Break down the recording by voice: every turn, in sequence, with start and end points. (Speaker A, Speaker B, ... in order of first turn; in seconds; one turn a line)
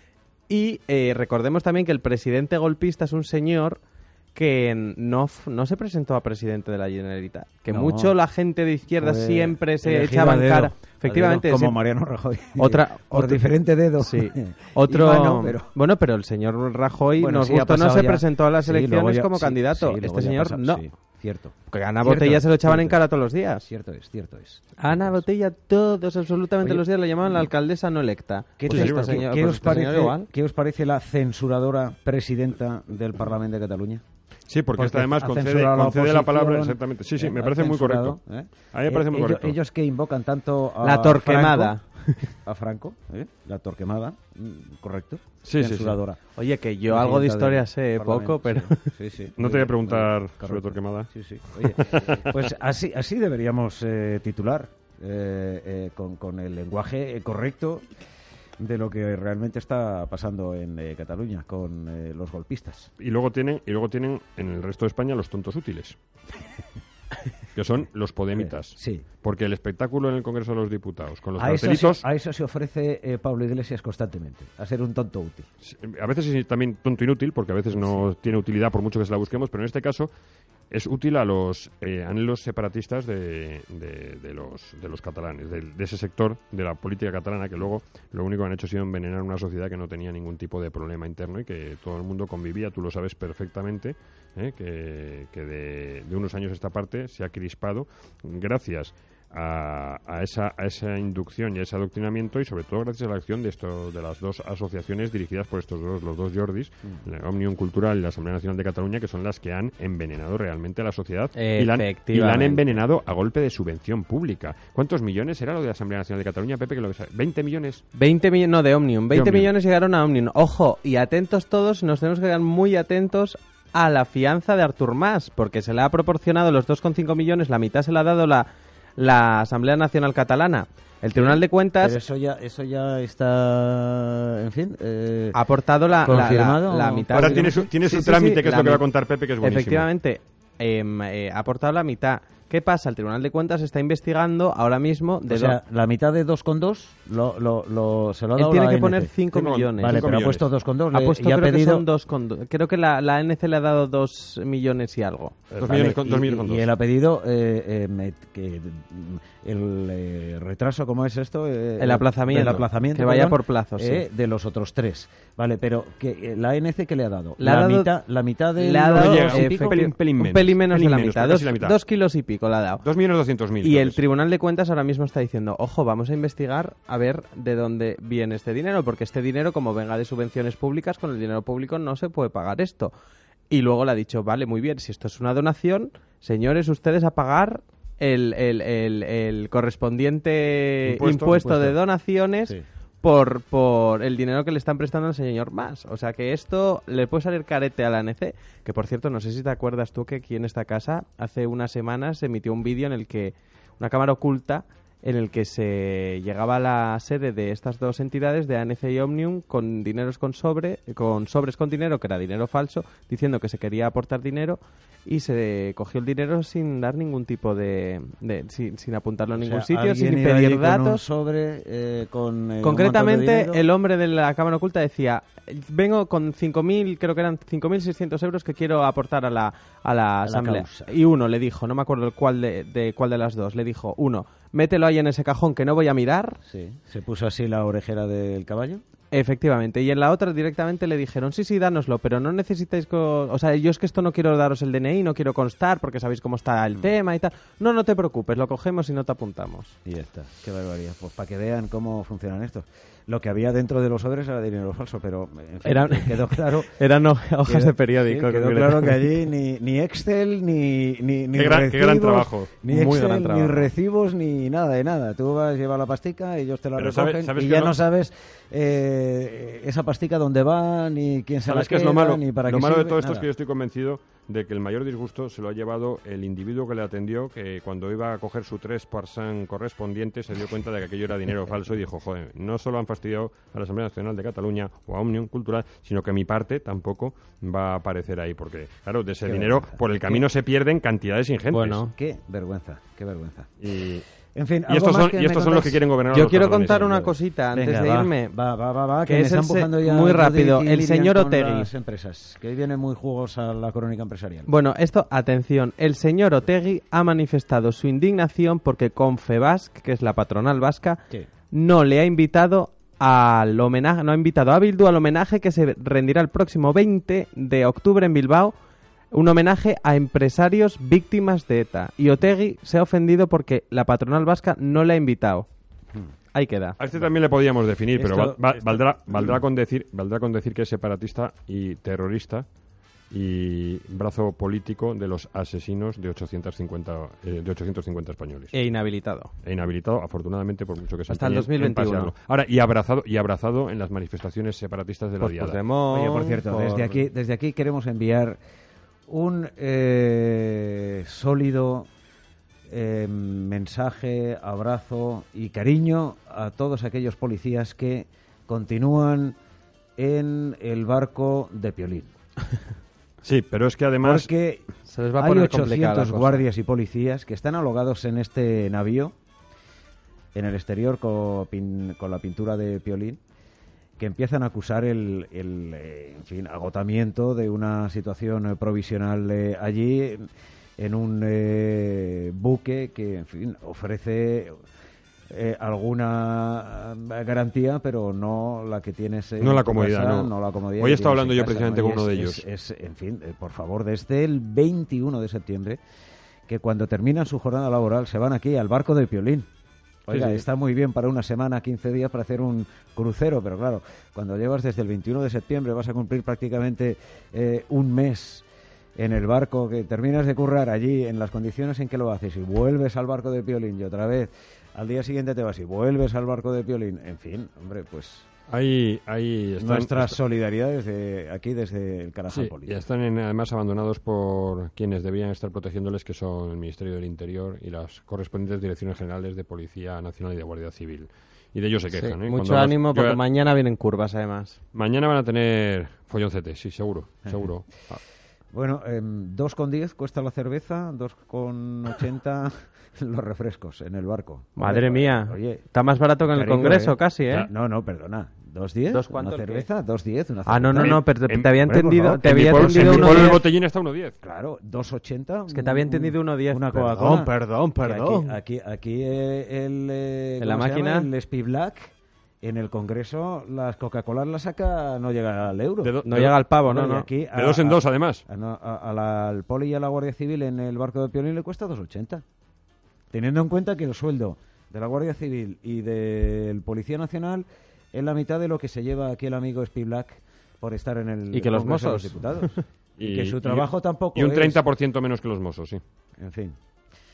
Speaker A: 0.5-3.8
Speaker A: 4.3-11.8
Speaker B: 7.7-8.1
Speaker B: 9.0-15.7
Speaker A: 12.6-13.4
Speaker A: 14.0-20.8
Speaker B: 17.2-23.0
Speaker A: 21.7-23.7
Speaker B: 23.6-25.2
Speaker A: 24.8-30.3
Speaker B: 28.6-34.0
Speaker C: 28.7-29.8
Speaker C: 34.5-38.2
Speaker B: 34.8-46.2
Speaker C: 38.7-39.6
Speaker A: 40.8-42.3
Speaker C: 45.4-46.0
Speaker A: 46.4-48.9
Speaker B: 46.9-57.9
Speaker C: 49.4-52.5
Speaker B: 58.6-62.9
Speaker C: 63.0-66.0
Speaker C: 67.5-72.0
Speaker B: 68.3-69.0
Speaker B: 71.4-75.5
Speaker C: 75.6-80.1
Speaker B: 77.8-78.0
Speaker C: 80.7-117.8
Speaker A: 111.3-112.8
Speaker A: 117.9-132.0
Speaker C: 119.1-119.5
Speaker B: 131.0-135.4
Speaker A: 135.3-138.8
Speaker B: 136.0-137.7
Speaker C: 137.1-139.9
Speaker A: 139.4-145.6
Speaker B: 145.3-149.1
Speaker A: 148.3-150.1
Speaker C: 149.3-150.5
Speaker B: 149.8-151.8
Speaker A: 150.9-155.4
Speaker C: 155.5-156.7
Speaker B: 155.6-169.8
Speaker A: 161.8-164.0
Speaker A: 167.4-167.9
Speaker A: 168.6-172.8
Speaker C: 168.9-171.8
Speaker C: 172.8-174.0
Speaker A: 173.6-182.9
Speaker A: 183.5-221.0
Speaker C: 190.8-191.8
Speaker B: 219.4-223.7
Speaker A: 222.6-236.4
Speaker B: 230.2-230.9
Speaker B: 236.4-238.8
Speaker A: 239.1-249.8
Speaker B: 249.8-256.7
Speaker A: 255.6-259.0
Speaker B: 257.4-273.3
Speaker C: 261.3-262.5
Speaker A: 262.7-263.7
Speaker C: 266.8-267.8
Speaker C: 271.4-291.8
Speaker B: 289.2-290.2
Speaker A: 291.5-291.9
Speaker B: 291.9-293.5
Speaker C: 293.6-294.0
Speaker B: 294.3-295.8
Speaker C: 294.7-297.0
Speaker A: 296.1-298.3
Speaker B: 296.6-304.5
Speaker A: 299.0-301.7
Speaker A: 304.5-318.5
Speaker A: 319.1-325.5
Speaker A: 326.3-326.8
Speaker C: 326.8-332.4
Speaker B: 327.9-329.4
Speaker C: 333.1-338.5
Speaker A: 338.5-339.3
Speaker C: 339.4-346.1
Speaker A: 341.1-342.1
Speaker A: 345.2-347.0
Speaker B: 345.9-348.4
Speaker B: 349.1-351.9
Speaker B: 352.7-359.4
Speaker B: 360.0-362.1
Speaker C: 363.2-364.3
Speaker B: 364.0-369.1
Speaker A: 364.9-366.4
Speaker B: 370.3-373.2
Speaker B: 374.0-384.6
Speaker B: 385.3-395.8
Speaker C: 389.4-392.4
Speaker B: 396.5-399.5
Speaker B: 400.1-408.4
Speaker C: 400.1-400.4
Speaker B: 408.9-418.3
Speaker C: 418.5-420.2
Speaker B: 419.6-422.8
Speaker C: 422.3-433.2
Speaker A: 431.9-434.6
Speaker C: 434.7-438.0
Speaker B: 438.5-445.6
Speaker A: 444.6-447.5
Speaker B: 446.2-451.0
Speaker A: 448.9-449.6
Speaker A: 450.4-453.4
Speaker C: 450.8-454.2
Speaker B: 451.6-453.4
Speaker B: 454.2-466.0
Speaker A: 455.5-458.4
Speaker A: 460.4-461.1
Speaker C: 465.8-466.4
Speaker A: 466.0-467.1
Speaker B: 466.6-472.2
Speaker C: 467.3-468.2
Speaker B: 473.1-484.6
Speaker A: 481.3-482.6
Speaker C: 483.0-485.8
Speaker B: 486.2-486.6